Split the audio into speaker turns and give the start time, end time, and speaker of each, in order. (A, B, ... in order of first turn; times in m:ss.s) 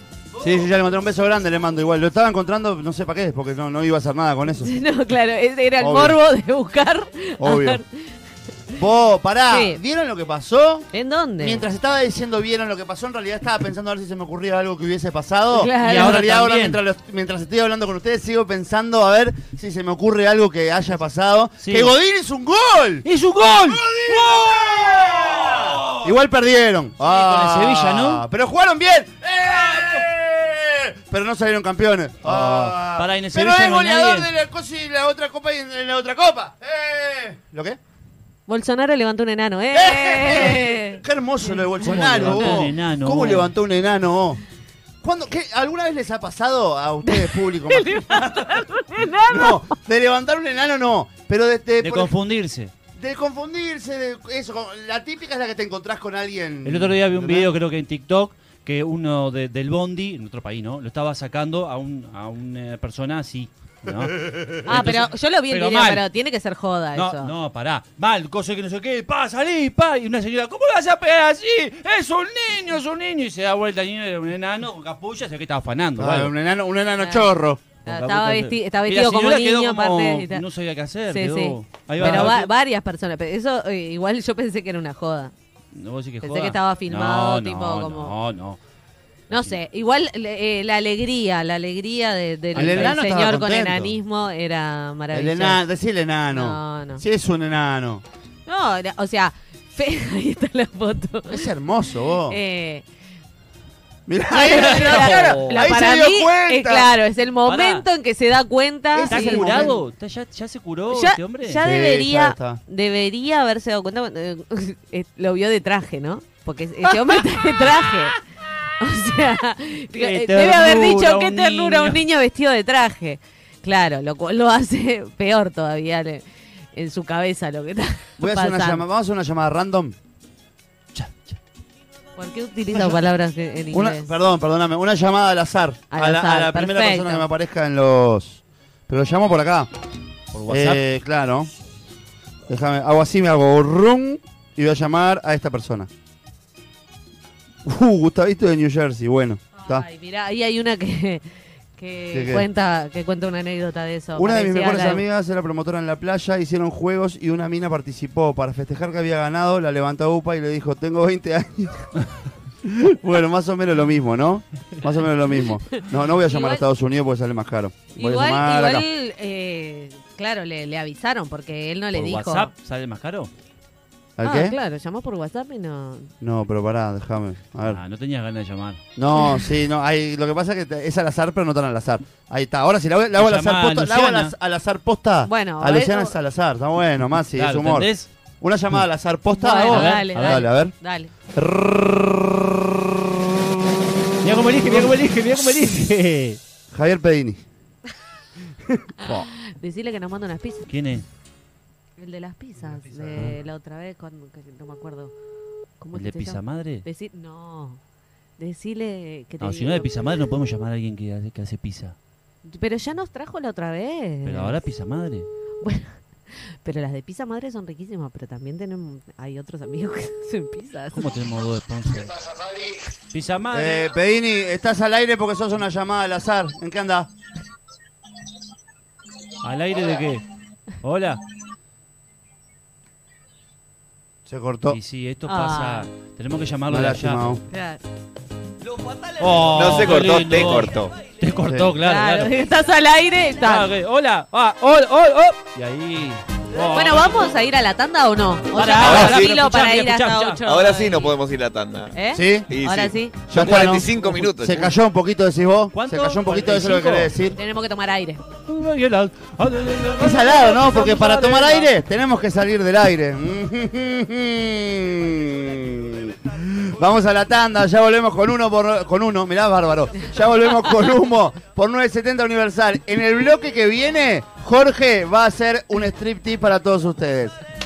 0:00.4-0:04.7 A
0:04.6-0:07.9 B
0:05.8-0:06.2 A
0:07.4-0:07.8 A
0:08.7-0:10.9 A
0:09.5-0:09.8 B
0:10.9-0:11.6 B
0:11.4-0:37.8 A
0:15.5-0:16.2 B
0:15.8-0:16.8 C
0:21.6-0:21.9 C
0:23.0-0:26.0 C
0:27.0-0:28.2 C
0:32.2-0:34.3 C
0:38.5-0:41.0 B
0:39.7-0:44.4 A
0:41.8-0:43.5 C
0:42.0-0:42.6 B
0:45.0-0:48.7 A
0:47.0-0:49.8 B
0:49.2-0:52.1 A
0:51.8-0:52.7 C
0:53.0-0:57.5 A
0:56.6-1:06.0 C
1:03.9-1:04.8 A
1:04.6-1:07.3 B
1:06.9-1:16.3 C
1:16.0-1:17.6 A
1:17.0-1:17.3 B
1:17.8-1:22.5 C
1:17.8-1:20.4 B
1:21.1-1:25.3 B
1:22.0-1:22.3 A
1:25.7-1:28.6 C
1:26.2-1:28.1 B
1:29.3-1:35.6 B
1:32.5-1:33.9 A
1:32.5-1:32.9 C
1:35.1-1:38.0 A
1:36.3-1:37.0 B
1:38.5-1:41.5 B
1:41.3-1:42.4 A
1:42.3-1:42.8 B
1:44.1-1:46.9 A
1:44.3-1:49.8 B
1:44.4-1:45.6 C
1:47.4-1:47.8 C
1:48.9-1:49.7 A
1:49.1-1:51.6 C
1:50.9-1:58.2 B
1:51.6-1:52.6 A
1:58.8-2:06.2 B
1:59.9-2:02.0 C
2:06.7-2:08.8 B
2:08.2-2:10.0 A
2:10.9-2:11.4 C
2:12.2-2:14.1 B
2:12.7-2:13.0 A
2:13.7-2:19.7 A
2:15.9-2:17.2 B
2:20.3-2:20.8 C
2:20.5-2:21.5 A
2:22.5-2:25.9 A
2:27.6-2:29.9 A
2:29.6-2:31.2 B
2:31.8-2:35.0 B
2:32.1-2:32.5 A
2:34.2-2:41.9 A
2:42.6-2:48.8 A
2:45.7-2:46.6 B
2:48.0-2:52.5 B
2:51.9-2:53.3 C
2:54.2-2:54.6 A
2:54.2-2:56.1 B
2:56.2-2:57.8 A
2:57.6-2:58.8 C
2:59.0-3:07.9 A
3:03.2-3:04.3 C
3:05.2-3:06.1 B
3:07.3-3:08.1 C
3:08.4-3:10.7 A
3:09.3-3:11.1 B
3:09.6-3:10.4 C
3:11.3-3:12.7 A
3:14.2-3:16.4 C
3:14.7-3:14.9 A
3:16.7-3:17.4 A
3:18.6-3:19.3 A
3:19.0-3:20.7 B
3:20.7-3:21.0 C
3:22.0-3:25.1 B
3:25.8-3:27.8 B
3:25.9-3:26.8 C
3:28.4-3:29.9 B
3:29.4-3:32.0 C
3:32.4-3:34.6 B
3:34.2-3:35.3 C
3:35.6-3:35.9 B
3:36.6-3:41.0 B
3:40.9-3:42.2 C
3:43.1-3:43.9 C
3:43.5-3:47.1 A
3:49.4-3:50.2 C
3:50.8-3:51.2 C
3:54.3-3:54.8 A
3:54.7-3:57.2 C
3:55.2-3:55.8 B
3:56.7-3:57.4 A
3:57.5-3:57.8 B
3:59.2-4:02.3 C
3:59.4-4:00.9 D
4:01.4-4:01.7 A
4:01.8-4:03.7 B
4:03.4-4:07.0 C
4:06.7-4:11.1 B
4:08.5-4:10.4 C
4:08.8-4:09.4 D
4:10.4-4:11.9 D
4:11.9-4:13.2 B
4:12.1-4:12.5 A
4:12.5-4:14.7 D
4:13.3-4:17.4 A
4:15.7-4:17.1 C
4:17.4-4:18.2 B
4:18.4-4:21.7 C
4:20.0-4:37.4 A